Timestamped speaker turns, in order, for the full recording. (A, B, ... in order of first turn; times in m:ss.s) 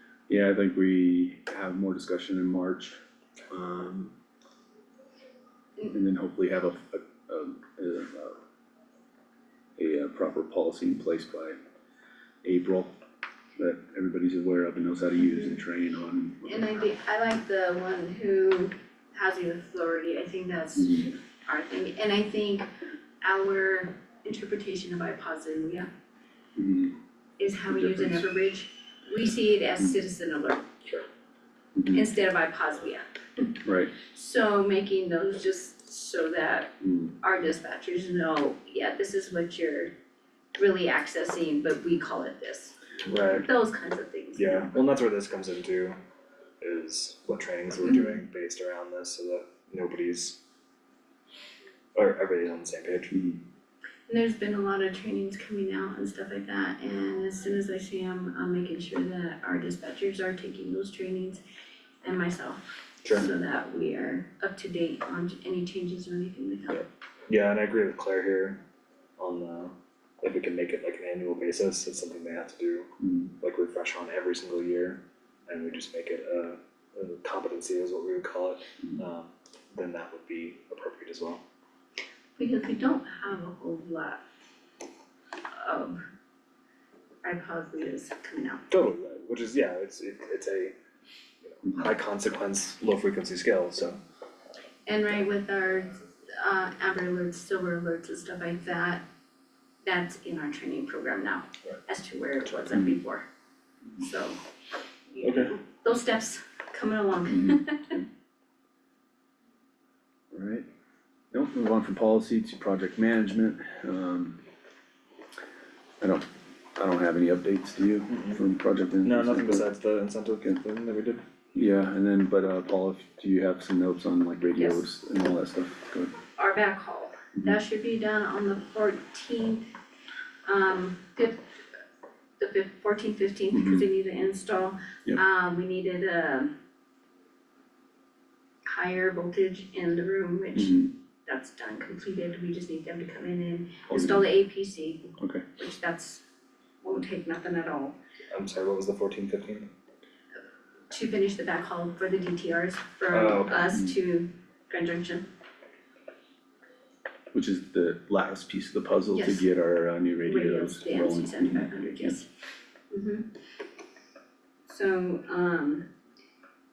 0:00.3-0:03.0 A
0:03.5-0:04.1 A
0:05.9-0:08.4 A
0:09.8-0:11.6 A
0:12.4-0:12.9 A
0:13.6-0:16.6 A
0:15.2-0:15.6 B
0:16.4-0:22.7 B
0:20.8-0:21.1 A
0:23.2-0:25.9 B
0:26.6-0:27.0 A
0:27.4-0:31.0 B
0:27.7-0:28.2 A
0:31.8-0:32.0 A
0:31.9-0:39.9 B
0:33.6-0:33.9 A
0:36.8-0:37.1 A
0:40.6-0:42.8 B
0:43.0-0:43.5 C
0:43.3-0:44.7 B
0:44.4-0:46.0 C
0:46.6-0:50.4 C
0:47.8-0:48.2 B
0:51.9-0:53.3 C
0:53.1-0:53.4 A
0:54.1-1:01.4 B
1:02.0-1:06.8 B
1:06.7-1:08.6 C
1:09.2-1:21.4 C
1:13.0-1:13.3 A
1:22.4-1:24.2 B
1:25.6-1:26.0 B
1:27.2-1:28.6 B
1:28.7-1:30.7 C
1:31.4-1:34.0 C
1:34.9-1:39.0 B
1:39.8-1:43.2 B
1:42.7-1:43.0 A
1:44.0-1:44.4 B
1:45.1-1:48.0 B
1:45.2-1:45.6 C
1:47.3-1:48.0 A
1:50.3-1:50.7 A
1:51.3-1:54.4 A
1:56.0-1:59.6 A
1:58.1-1:58.4 C
1:59.0-2:01.2 C
2:01.5-2:06.1 A
2:04.5-2:04.8 B
2:06.4-2:09.7 B
2:10.5-2:11.4 B
2:12.4-2:16.5 B
2:13.5-2:13.9 A
2:18.6-2:26.2 B
2:20.5-2:20.9 A
2:23.9-2:24.2 A
2:25.2-2:25.4 A
2:26.8-2:28.0 B
2:28.3-2:29.7 C
2:30.9-2:35.2 B
2:33.1-2:33.7 C
2:37.3-2:42.2 A
2:39.1-2:39.4 B
2:40.2-2:42.3 B
2:42.9-2:43.3 B
2:44.7-2:45.8 B